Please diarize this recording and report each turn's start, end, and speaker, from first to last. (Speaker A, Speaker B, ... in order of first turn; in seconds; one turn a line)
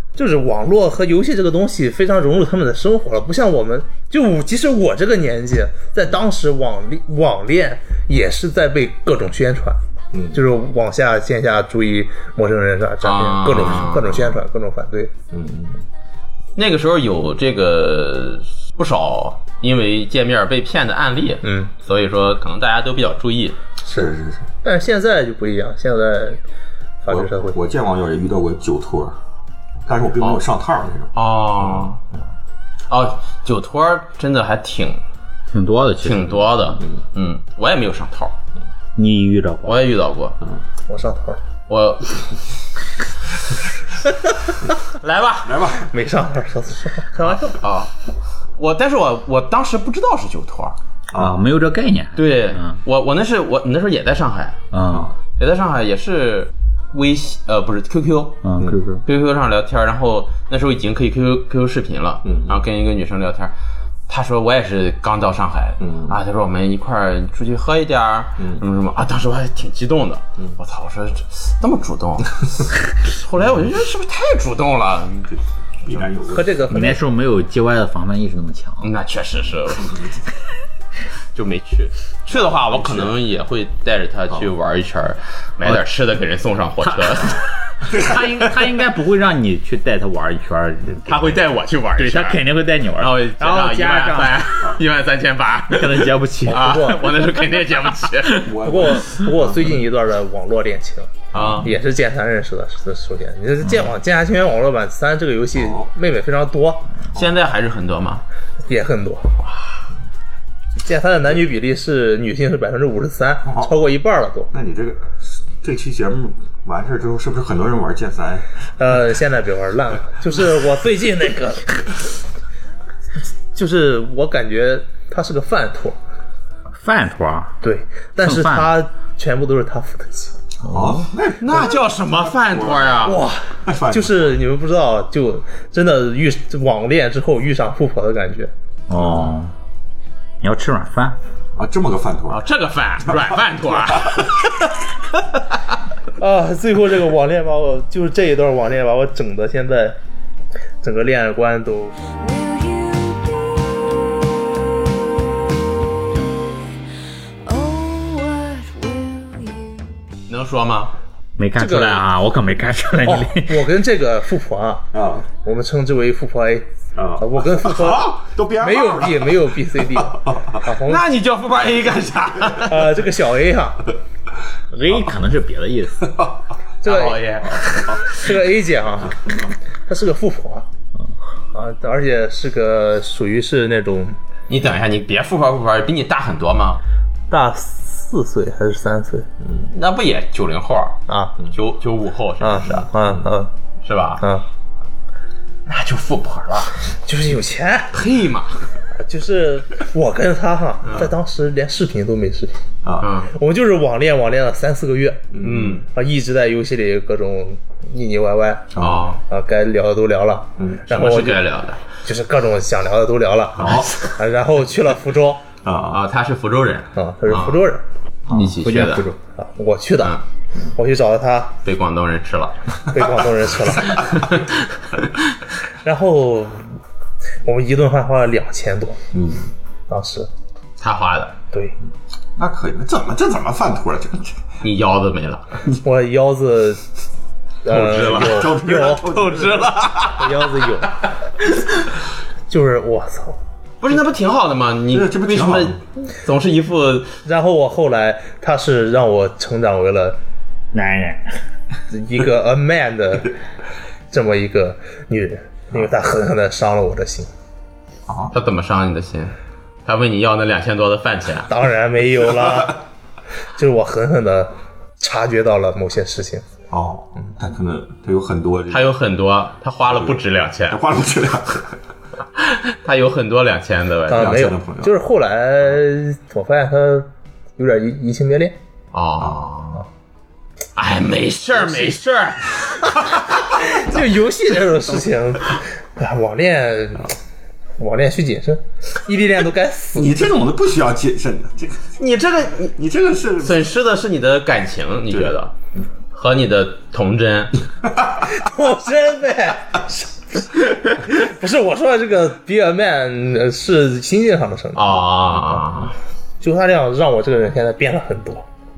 Speaker A: 0.1-9.8
Speaker B: 10.1-10.4
Speaker A: 10.3-15.1
Speaker C: 13.0-14.4
Speaker B: 15.3-15.8
Speaker C: 16.6-23.6
Speaker A: 21.4-21.7
Speaker A: 23.9-24.1
Speaker B: 23.9-24.4
Speaker A: 24.6-26.4
Speaker A: 27.0-27.6
Speaker B: 27.1-29.1
Speaker B: 29.9-31.9
Speaker C: 31.1-32.0
Speaker C: 32.9-35.0
Speaker D: 35.5-36.5
Speaker C: 36.0-38.3
Speaker D: 39.0-39.8
Speaker C: 39.6-40.4
Speaker A: 40.9-41.4
Speaker C: 41.7-42.2
Speaker C: 45.0-45.7
Speaker B: 45.4-45.9
Speaker A: 45.8-47.6
Speaker C: 47.5-47.9
Speaker C: 48.6-50.8
Speaker B: 51.1-51.4
Speaker D: 51.1-52.8
Speaker C: 52.1-54.6
Speaker D: 54.7-55.1
Speaker B: 54.9-55.1
Speaker C: 55.4-58.4
Speaker D: 58.4-59.0
Speaker C: 59.0-63.5
Speaker B: 62.2-62.6
Speaker C: 64.1-75.3
Speaker B: 65.8-66.2
Speaker B: 68.4-68.6
Speaker B: 75.8-76.9
Speaker A: 76.3-77.0
Speaker D: 76.7-78.9
Speaker C: 78.8-80.0
Speaker B: 79.8-80.1
Speaker C: 81.3-87.5
Speaker B: 82.7-83.1
Speaker D: 86.8-91.4
Speaker C: 91.0-92.4
Speaker D: 92.0-94.5
Speaker C: 93.0-98.5
Speaker D: 95.7-97.0
Speaker A: 96.5-97.2
Speaker B: 98.3-99.6
Speaker A: 98.6-106.9
Speaker C: 101.3-101.7
Speaker B: 105.6-105.9
Speaker C: 107.1-108.2
Speaker A: 108.7-109.3
Speaker A: 110.8-114.5
Speaker B: 113.4-113.7
Speaker B: 114.5-118.5
Speaker A: 118.8-121.7
Speaker A: 123.5-126.0
Speaker D: 126.7-127.6
Speaker A: 127.6-130.3
Speaker D: 128.2-128.7
Speaker B: 130.6-134.3
Speaker D: 130.6-131.1
Speaker C: 131.4-133.2
Speaker A: 133.0-138.5
Speaker D: 138.9-139.5
Speaker B: 138.9-139.3
Speaker D: 140.4-141.2
Speaker B: 141.6-142.4
Speaker C: 142.3-144.4
Speaker B: 144.0-144.2
Speaker A: 146.2-150.0
Speaker A: 150.8-151.9
Speaker E: 152.2-156.7
Speaker E: 157.4-159.9
Speaker C: 160.3-160.9
Speaker D: 161.4-163.7
Speaker A: 161.6-162.0
Speaker A: 163.0-164.9
Speaker B: 164.9-165.3
Speaker A: 165.4-171.0
Speaker B: 166.9-170.6
Speaker C: 170.9-172.9
Speaker A: 172.6-173.8
Speaker D: 174.7-176.2
Speaker A: 176.8-177.3
Speaker C: 176.8-178.0
Speaker B: 177.7-178.0
Speaker A: 178.0-179.3
Speaker A: 179.9-180.7
Speaker A: 181.5-184.2
Speaker C: 184.5-186.8
Speaker A: 187.3-189.3
Speaker B: 189.4-189.7
Speaker C: 189.7-192.9
Speaker A: 191.1-191.3
Speaker A: 192.4-193.5
Speaker C: 193.8-194.2
Speaker A: 194.2-194.4
Speaker C: 195.7-196.7
Speaker A: 197.0-197.9
Speaker C: 197.9-198.6
Speaker A: 198.9-202.5
Speaker B: 202.8-203.1
Speaker C: 203.0-203.3
Speaker A: 203.2-205.3
Speaker B: 205.3-205.8
Speaker C: 205.4-205.8
Speaker A: 205.8-208.7
Speaker B: 208.7-209.1
Speaker C: 208.8-209.2
Speaker A: 209.3-211.4
Speaker B: 210.6-210.8
Speaker C: 210.9-211.8
Speaker A: 211.9-215.4
Speaker B: 213.6-214.1
Speaker B: 215.6-216.0
Speaker C: 215.9-217.6
Speaker A: 216.9-217.8
Speaker D: 218.3-219.2
Speaker C: 218.3-219.1
Speaker A: 219.3-220.2
Speaker A: 220.7-221.6
Speaker C: 221.6-222.6
Speaker A: 222.9-224.1
Speaker A: 225.8-226.8
Speaker A: 227.4-229.0
Speaker B: 229.1-229.5
Speaker A: 229.9-230.3
Speaker C: 230.8-231.3
Speaker B: 232.4-234.4
Speaker C: 234.6-235.4
Speaker A: 235.8-236.8
Speaker A: 237.6-239.1
Speaker C: 237.7-240.3
Speaker B: 237.7-240.1
Speaker A: 240.1-241.0
Speaker A: 242.5-243.4
Speaker C: 243.8-247.1
Speaker B: 244.9-245.8
Speaker A: 247.2-250.2
Speaker D: 250.7-251.4
Speaker A: 251.9-253.3
Speaker A: 254.1-257.3
Speaker B: 258.1-258.3
Speaker C: 258.3-259.3
Speaker C: 259.8-261.5
Speaker A: 261.5-262.8
Speaker A: 263.6-266.4
Speaker B: 266.7-268.9
Speaker C: 268.7-270.8
Speaker B: 269.9-271.7
Speaker C: 272.4-274.4
Speaker A: 274.1-278.6
Speaker B: 274.1-274.9
Speaker C: 278.9-279.8
Speaker B: 279.2-279.6
Speaker C: 280.8-282.8
Speaker A: 283.5-287.1
Speaker A: 287.8-290.1
Speaker B: 289.9-291.9
Speaker C: 292.0-292.7
Speaker B: 292.8-293.7
Speaker C: 293.4-295.5
Speaker C: 296.1-297.6
Speaker A: 298.2-305.0
Speaker C: 304.7-305.9
Speaker A: 306.4-308.4